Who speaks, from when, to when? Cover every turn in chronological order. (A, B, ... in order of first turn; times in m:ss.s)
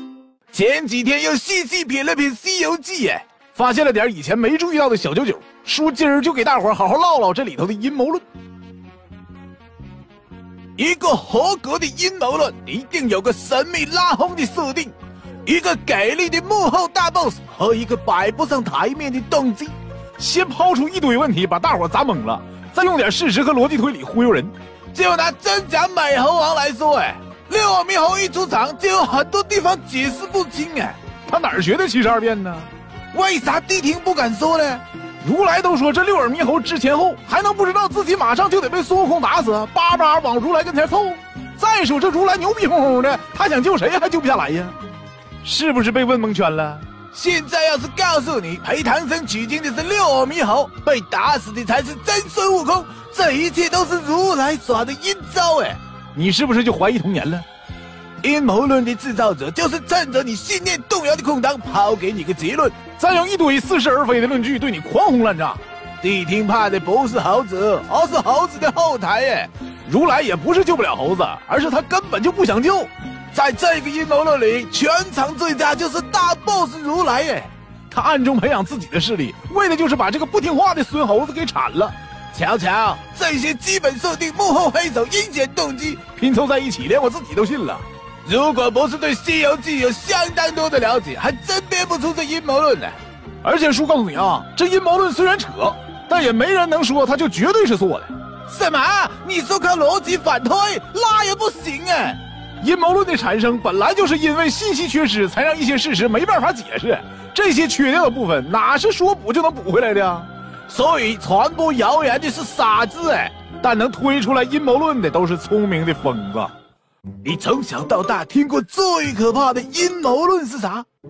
0:00.5-0:08.2 A
0:10.8-0:44.8 A
0:45.4-0:57.5 A
0:58.2-1:56.5 A
1:57.2-2:00.9 A